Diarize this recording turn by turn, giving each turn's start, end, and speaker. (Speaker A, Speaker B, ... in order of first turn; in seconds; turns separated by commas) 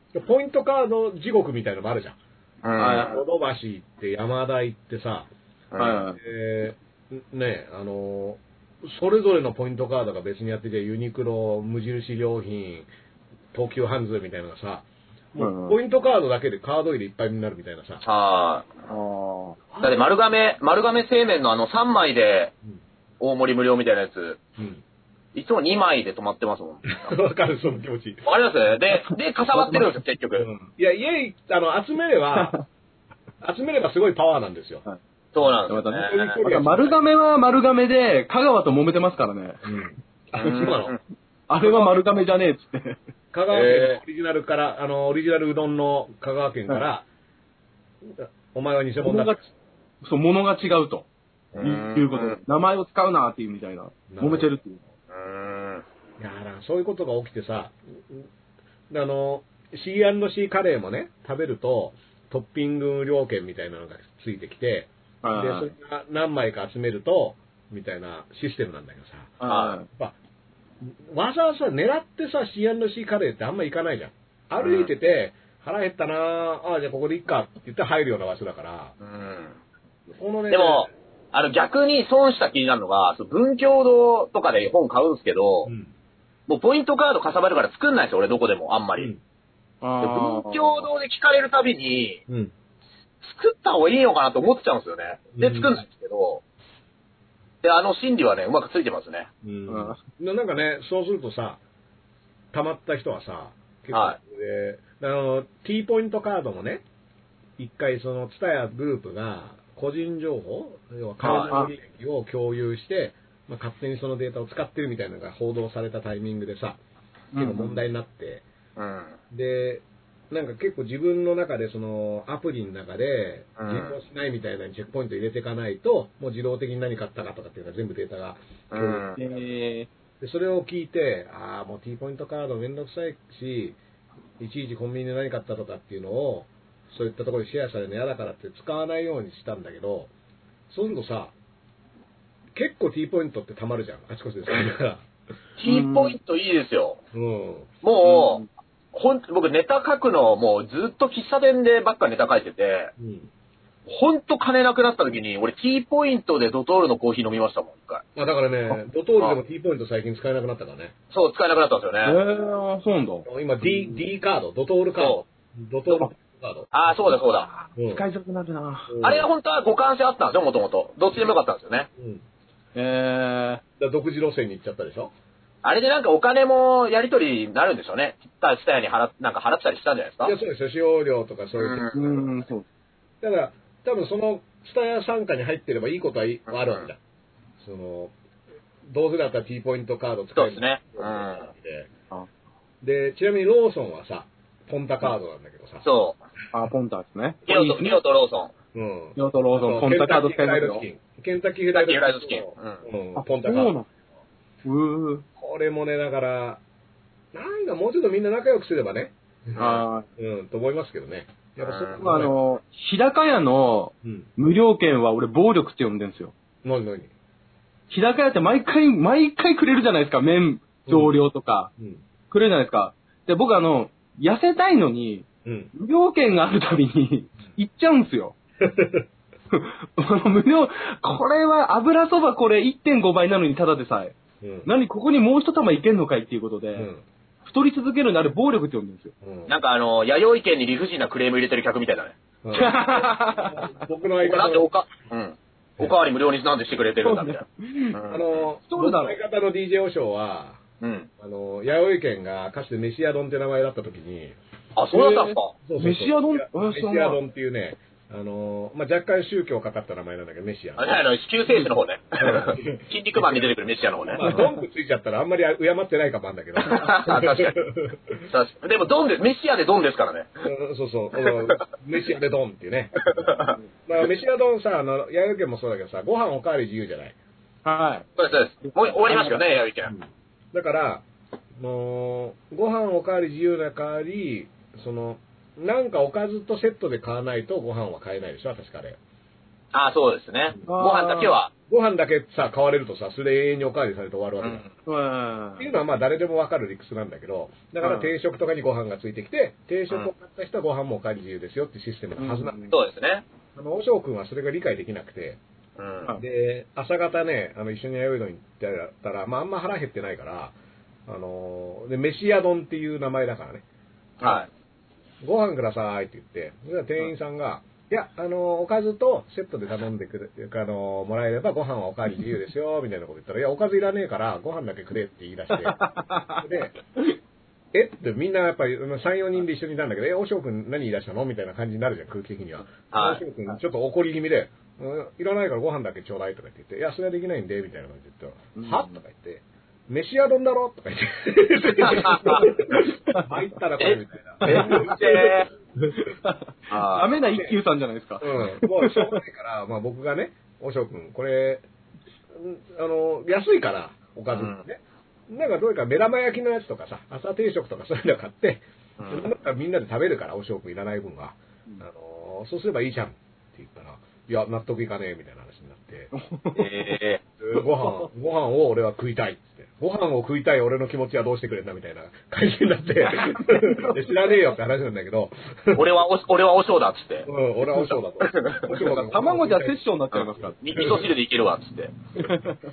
Speaker A: 0.1-2.2, Speaker B: 2.6-3.2, Speaker C: 2.8-3.2, Speaker A: 3.0-5.3, Speaker B: 5.7-6.0, Speaker C: 5.8-6.2, Speaker A: 6.1-12.9, Speaker A: 13.5-18.0, Speaker C: 15.4-15.8, Speaker B: 18.0-18.7, Speaker C: 18.9-19.6, Speaker A: 19.7-20.1, Speaker B: 19.8-22.5, Speaker B: 23.2-24.4, Speaker B: 25.3-27.1, Speaker A: 26.9-28.2, Speaker B: 28.2-30.5, Speaker C: 29.5-30.7, Speaker A: 30.7-32.6, Speaker C: 32.3-32.6, Speaker A: 33.4-34.8, Speaker B: 35.3-36.4, Speaker C: 35.7-39.6, Speaker A: 36.0-37.0, Speaker A: 39.6-41.0, Speaker B: 40.3-41.0, Speaker C: 40.4-40.8, Speaker C: 41.5-43.0, Speaker A: 41.6-42.0, Speaker A: 43.3-47.0, Speaker B: 43.5-44.0, Speaker A: 48.0-49.4, Speaker C: 49.0-49.4, Speaker C: 50.0-51.1, Speaker B: 51.5-52.4, Speaker C: 51.6-54.8, Speaker A: 54.1-54.5, Speaker B: 55.1-55.8, Speaker A: 56.2-58.3, Speaker A: 58.9-70.2, Speaker C: 65.2-65.7, Speaker C: 69.4-69.9, Speaker B: 69.4-69.8, Speaker A: 70.8-78.9, Speaker B: 74.6-74.9, Speaker B: 79.0-79.6, Speaker A: 80.2-80.9, Speaker B: 80.5-85.7, Speaker A: 85.6-85.9, Speaker B: 86.5-89.1, Speaker C: 89.8-90.9, Speaker B: 90.0-92.2, Speaker A: 92.3-92.5, Speaker B: 93.2-96.4, Speaker A: 95.3-95.8, Speaker B: 97.6-99.3, Speaker A: 99.4-101.6, Speaker C: 99.7-100.0, Speaker A: 102.5-106.8, Speaker B: 103.9-104.2, Speaker A: 107.6-116.8, Speaker B: 111.2-111.5, Speaker C: 111.2-111.7, Speaker C: 117.3-117.8, Speaker A: 117.4-118.4, Speaker B: 118.8-119.2, Speaker A: 119.3-129.4, Speaker B: 123.6-124.0, Speaker B: 128.7-129.2, Speaker C: 129.2-129.9, Speaker A: 130.2-133.8, Speaker A: 134.4-140.1, Speaker A: 140.7-141.3, Speaker A: 142.5-145.1, Speaker B: 145.6-147.0, Speaker C: 145.6-146.2, Speaker A: 147.1-147.7, Speaker B: 147.8-152.9, Speaker C: 148.0-148.4, Speaker A: 153.0-153.3, Speaker B: 153.9-158.0, Speaker A: 158.2-160.9, Speaker B: 161.1-162.2, Speaker C: 162.0-164.0, Speaker A: 163.2-166.7, Speaker B: 165.0-165.2, Speaker B: 166.7-167.5, Speaker C: 167.2-168.9, Speaker A: 167.8-168.0, Speaker A: 168.9-169.3, Speaker B: 169.0-171.9, Speaker A: 172.0-172.2, Speaker C: 172.7-173.6, Speaker A: 173.8-175.1, Speaker B: 175.6-180.3, Speaker A: 180.2-182.3, Speaker B: 181.6-182.0, Speaker C: 181.9-182.6, Speaker A: 183.2-187.0, Speaker B: 186.5-186.9, Speaker A: 187.6-188.1, Speaker A: 188.9-191.9, Speaker B: 190.3-191.5, Speaker A: 192.8-195.8, Speaker B: 195.8-196.2, Speaker C: 196.5-198.0, Speaker B: 197.5-198.5, Speaker A: 198.7-203.7, Speaker C: 199.2-200.8, Speaker B: 201.7-202.8, Speaker C: 203.2-203.9, Speaker C: 204.6-205.2, Speaker A: 205.4-206.6, Speaker A: 207.3-212.3, Speaker C: 209.6-210.1, Speaker B: 211.6-212.0, Speaker C: 212.0-216.3, Speaker A: 214.0-214.3, Speaker A: 216.6-217.1, Speaker C: 217.9-221.7, Speaker A: 220.9-221.2, Speaker C: 222.3-228.3, Speaker A: 225.4-225.7, Speaker A: 228.6-229.1, Speaker C: 229.5-236.9, Speaker A: 234.4-234.7, Speaker A: 236.7-237.0, Speaker C: 237.4-239.1, Speaker A: 239.2-239.5, Speaker B: 239.5-242.2, Speaker A: 242.4-244.7, Speaker C: 242.5-243.7, Speaker B: 244.2-248.3, Speaker C: 247.0-248.0, Speaker A: 248.1-250.6, Speaker C: 248.7-249.2, Speaker B: 250.8-251.1, Speaker A: 251.2-254.4, Speaker B: 254.8-255.5, Speaker C: 254.9-257.2, Speaker A: 255.6-261.0, Speaker B: 260.8-264.3, Speaker A: 262.2-263.5, Speaker A: 264.1-268.2, Speaker C: 264.2-264.5, Speaker B: 266.6-267.6, Speaker B: 268.3-270.3, Speaker A: 270.4-273.3, Speaker B: 271.2-271.6, Speaker B: 273.0-273.6, Speaker A: 273.9-277.1, Speaker C: 277.6-278.1, Speaker B: 278.2-279.9, Speaker C: 278.6-279.4, Speaker A: 279.9-281.0, Speaker A: 281.6-289.0, Speaker B: 289.7-291.5, Speaker C: 290.6-291.4, Speaker A: 291.7-294.6, Speaker B: 294.4-294.7, Speaker C: 294.9-295.7, Speaker A: 295.6-302.6, Speaker C: 297.8-298.1, Speaker C: 302.2-302.7, Speaker B: 302.7-303.2, Speaker A: 303.6-305.4, Speaker B: 305.8-306.1, Speaker A: 306.2-310.5, Speaker A: 311.1-313.6, Speaker B: 314.2-314.5, Speaker A: 315.2-325.8, Speaker C: 325.6-326.4, Speaker A: 326.4-326.8, Speaker A: 327.7-345.9, Speaker B: 332.9-333.2, Speaker C: 338.5-339.0, Speaker B: 341.8-342.4, Speaker C: 341.9-343.2, Speaker B: 343.8-345.5, Speaker C: 344.4-344.9, Speaker C: 346.0-349.2, Speaker B: 346.7-347.1, Speaker A: 348.2-351.6, Speaker A: 352.3-366.1, Speaker B: 354.3-354.6, Speaker B: 359.0-359.3, Speaker C: 366.1-366.7, Speaker B: 366.5-367.2, Speaker A: 367.4-375.8, Speaker C: 367.8-368.1, Speaker C: 373.1-374.0, Speaker B: 375.7-377.3, Speaker A: 377.2-379.8, Speaker B: 378.2-378.7, Speaker C: 378.7-380.9, Speaker B: 380.2-381.9, Speaker A: 380.4-381.1, Speaker C: 382.2-382.6